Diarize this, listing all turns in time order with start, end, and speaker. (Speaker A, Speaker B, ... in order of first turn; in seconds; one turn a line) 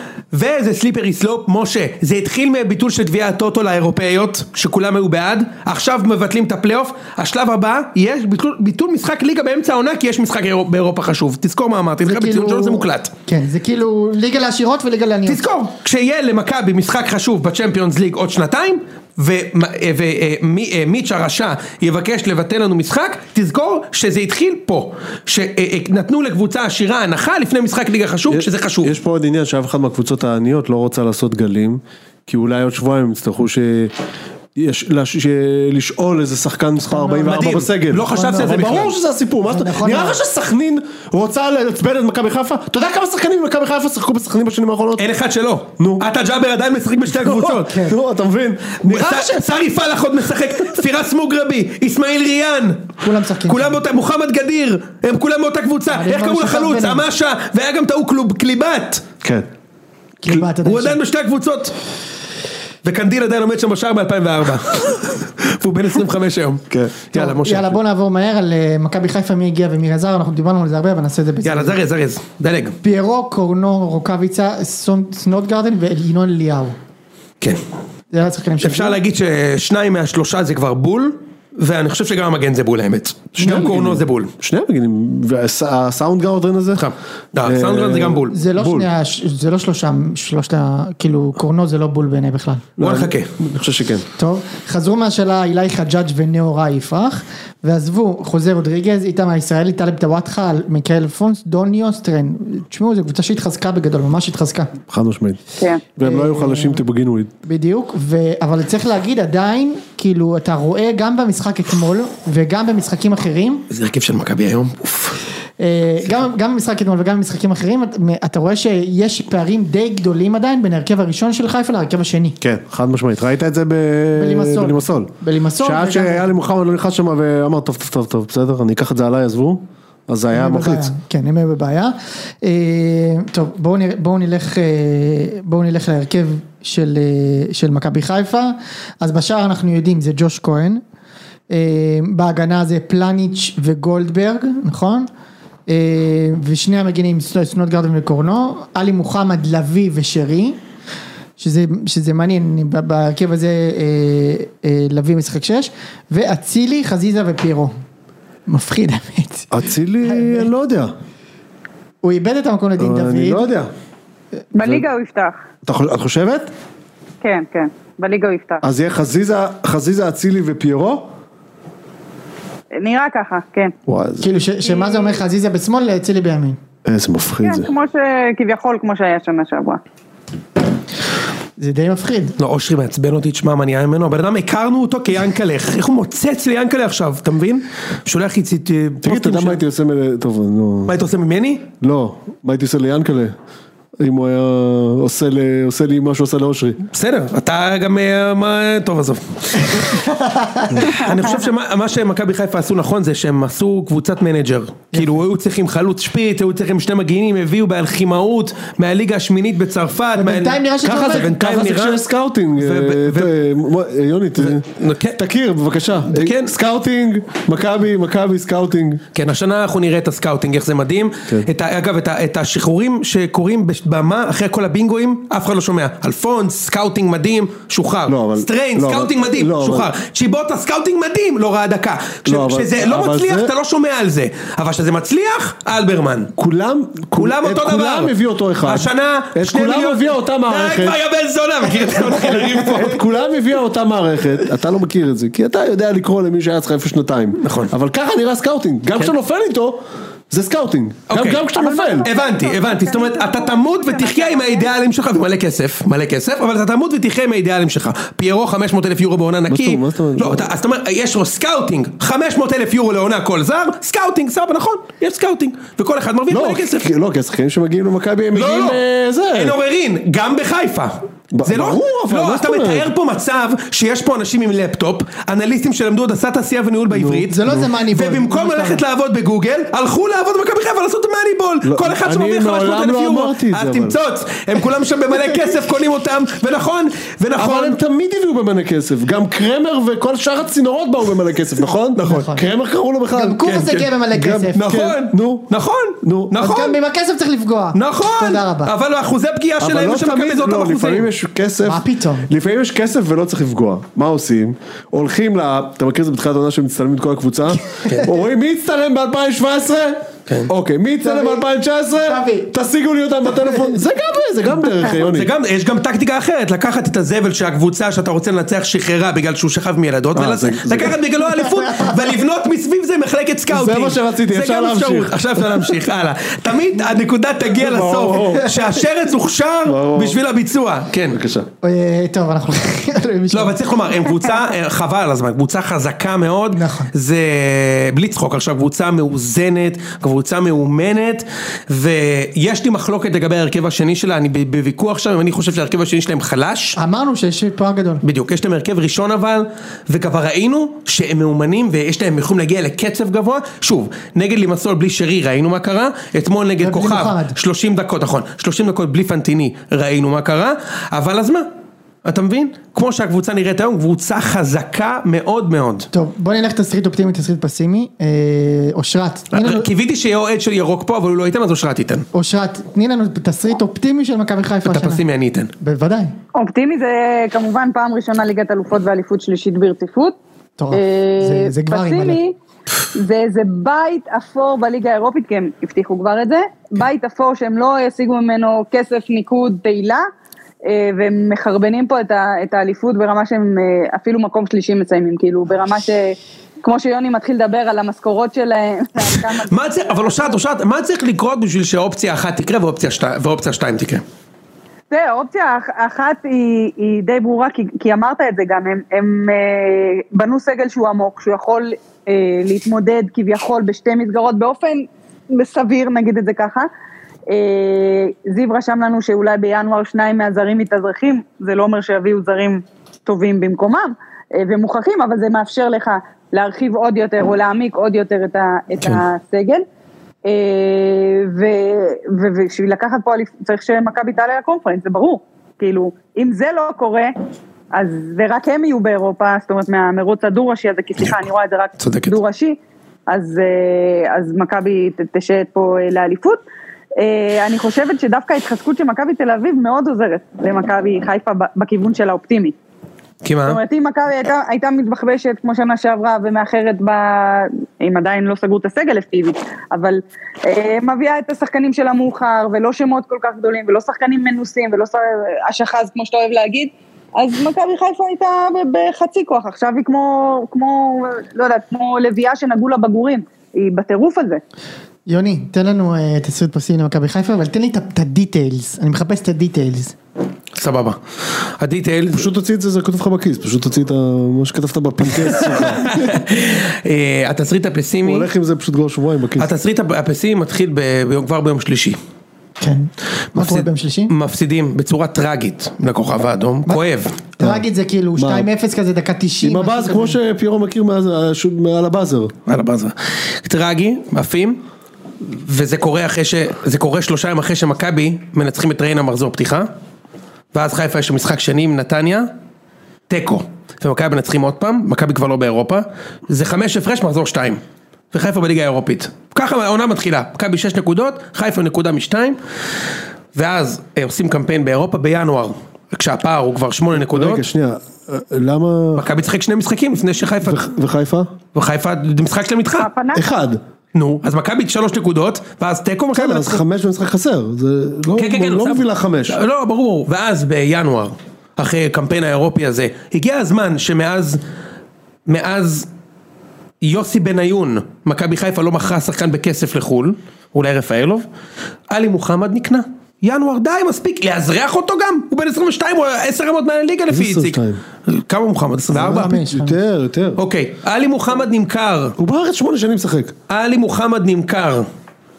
Speaker A: 0.3-13.1
Speaker B: 12.0-15.4
Speaker A: 15.3-28.9
Speaker C: 28.3-33.9
Speaker C: 34.6-45.1
Speaker B: 36.8-38.9
Speaker A: 37.3-38.9
Speaker B: 39.5-40.2
Speaker A: 45.0-47.8
Speaker C: 45.8-46.1
Speaker C: 47.2-49.4
Speaker B: 47.6-48.0
Speaker A: 48.8-59.0
Speaker B: 53.0-53.8
Speaker B: 55.9-57.1
Speaker B: 60.2-61.0
Speaker A: 60.3-61.7
Speaker A: 62.8-67.8
Speaker C: 66.7-67.0
Speaker B: 67.1-71.8
Speaker A: 71.4-72.8
Speaker B: 72.8-76.8
Speaker B: 78.1-79.0
Speaker A: 78.6-84.3
Speaker C: 83.3-86.9
Speaker A: 86.8-88.3
Speaker C: 87.4-88.9
Speaker B: 88.3-92.6
Speaker A: 92.8-93.3
Speaker C: 92.8-94.0
Speaker B: 94.2-104.7
Speaker C: 104.9-105.4
Speaker C: 106.0-107.3
Speaker B: 106.0-106.8
Speaker B: 107.5-113.6
Speaker A: 113.7-115.2
Speaker B: 115.6-122.4
Speaker C: 122.4-130.9
Speaker B: 124.2-126.3
Speaker B: 130.3-140.8
Speaker B: 141.5-145.1
Speaker B: 145.7-150.6
Speaker B: 151.4-157.7
Speaker B: 158.5-160.5
Speaker C: 159.5-160.9
Speaker B: 162.0-163.5
Speaker C: 162.8-163.7
Speaker D: 164.5-165.4
Speaker C: 164.6-164.8
Speaker C: 165.6-166.5
Speaker D: 167.2-168.6
Speaker C: 168.6-171.1
Speaker D: 172.7-173.7
Speaker C: 173.9-174.2
Speaker B: 174.2-176.6
Speaker D: 174.7-175.2
Speaker C: 176.8-177.7
Speaker D: 177.4-179.8
Speaker B: 181.6-182.4
Speaker A: 182.4-189.6
Speaker C: 189.0-191.0
Speaker A: 190.9-191.7
Speaker C: 191.8-193.3
Speaker C: 194.0-196.8
Speaker A: 196.9-199.9
Speaker B: 199.7-201.0
Speaker A: 200.7-212.0
Speaker B: 204.9-205.2
Speaker B: 210.2-211.3
Speaker C: 210.8-219.0
Speaker A: 212.6-213.3
Speaker A: 214.4-215.2
Speaker A: 216.1-216.5
Speaker A: 219.1-236.3
Speaker C: 228.1-229.9
Speaker C: 232.3-233.5
Speaker C: 236.4-241.0
Speaker A: 237.2-243.0
Speaker C: 242.5-252.1
Speaker A: 247.4-247.7
Speaker A: 251.1-251.4
Speaker D: 251.5-254.8
Speaker A: 252.0-266.9
Speaker C: 259.5-260.5
Speaker C: 266.3-269.6
Speaker A: 268.3-268.8
Speaker A: 269.3-287.8
Speaker C: 271.3-272.9
Speaker C: 276.9-277.7
Speaker B: 277.3-278.8
Speaker C: 281.6-284.0
Speaker C: 287.4-293.6
Speaker A: 292.0-292.3
Speaker B: 292.1-292.4
Speaker B: 293.1-294.6
Speaker A: 293.4-293.9
Speaker C: 294.1-295.5
Speaker A: 294.5-296.8
Speaker C: 296.0-296.4
Speaker B: 296.4-298.7
Speaker A: 297.7-301.1
Speaker C: 299.6-315.3
Speaker B: 301.6-302.3
Speaker B: 311.0-312.5
Speaker A: 314.8-331.2
Speaker C: 320.1-320.9
Speaker C: 323.5-325.7
Speaker C: 327.5-328.6
Speaker C: 329.7-330.2
Speaker C: 331.1-331.5
Speaker B: 331.6-333.6
Speaker A: 333.3-346.8
Speaker B: 336.5-336.9
Speaker B: 346.8-348.0
Speaker A: 348.0-361.5
Speaker B: 356.6-357.4
Speaker A: 362.1-365.9
Speaker B: 365.9-369.7
Speaker A: 369.3-372.1
Speaker B: 372.1-375.0
Speaker A: 374.7-375.5
Speaker B: 375.6-376.1
Speaker D: 376.4-380.2
Speaker B: 380.6-382.2
Speaker D: 380.7-382.4
Speaker D: 382.9-390.1
Speaker D: 390.6-400.4
Speaker A: 399.4-404.0
Speaker D: 404.9-416.7
Speaker D: 417.3-429.6
Speaker D: 430.2-437.1
Speaker D: 437.7-446.4
Speaker A: 441.8-442.2
Speaker D: 447.0-452.5
Speaker A: 453.2-453.6
Speaker D: 453.4-474.4
Speaker B: 475.1-479.9
Speaker A: 480.6-482.3
Speaker C: 482.1-486.2
Speaker A: 485.4-488.3
Speaker C: 488.0-489.5
Speaker A: 489.4-492.0
Speaker B: 492.6-494.1
Speaker A: 493.3-497.2
Speaker B: 497.4-500.2
Speaker C: 498.2-498.5
Speaker C: 499.4-502.3
Speaker A: 502.5-504.6
Speaker A: 505.3-509.7
Speaker A: 510.5-512.3
Speaker A: 513.1-517.6
Speaker A: 518.1-522.4
Speaker A: 523.4-527.5
Speaker C: 527.0-529.1
Speaker A: 529.0-530.6
Speaker C: 530.4-531.3
Speaker A: 531.5-532.9
Speaker D: 532.7-533.3
Speaker C: 533.1-533.6
Speaker A: 533.9-536.6
Speaker C: 536.1-539.4
Speaker A: 538.2-544.4
Speaker A: 545.3-545.9
Speaker A: 546.8-551.3
Speaker A: 551.9-559.4
Speaker C: 557.1-557.8
Speaker B: 558.9-559.8
Speaker C: 559.0-560.4
Speaker A: 560.4-562.1
Speaker C: 562.2-563.3
Speaker A: 563.5-564.9